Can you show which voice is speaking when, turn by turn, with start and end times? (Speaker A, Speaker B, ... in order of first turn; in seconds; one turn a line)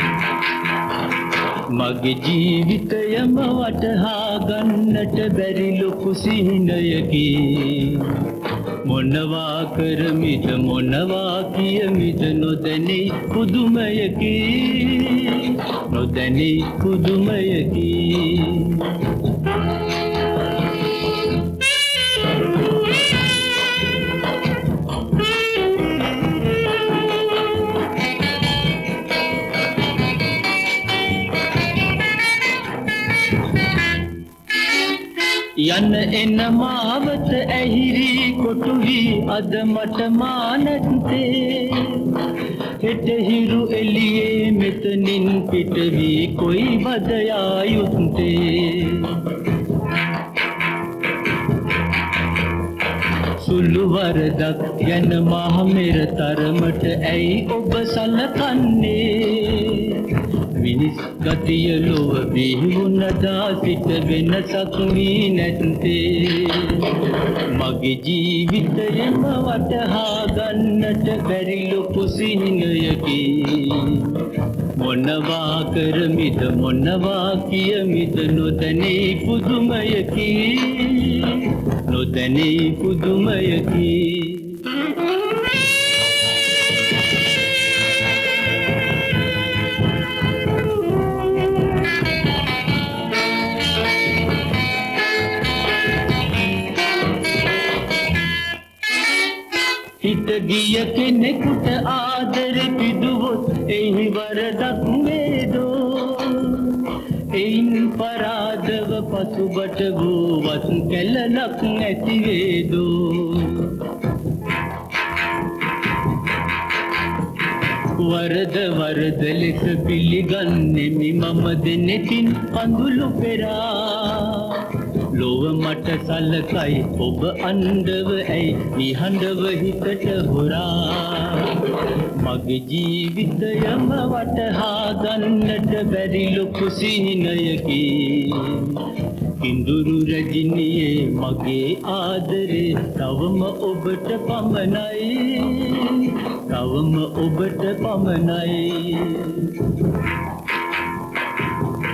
Speaker A: 1.5-19.3
Speaker A: 35.5-49.4
Speaker A: 53.3-84.8
Speaker A: 100.0-113.9
Speaker A: 117.7-149.8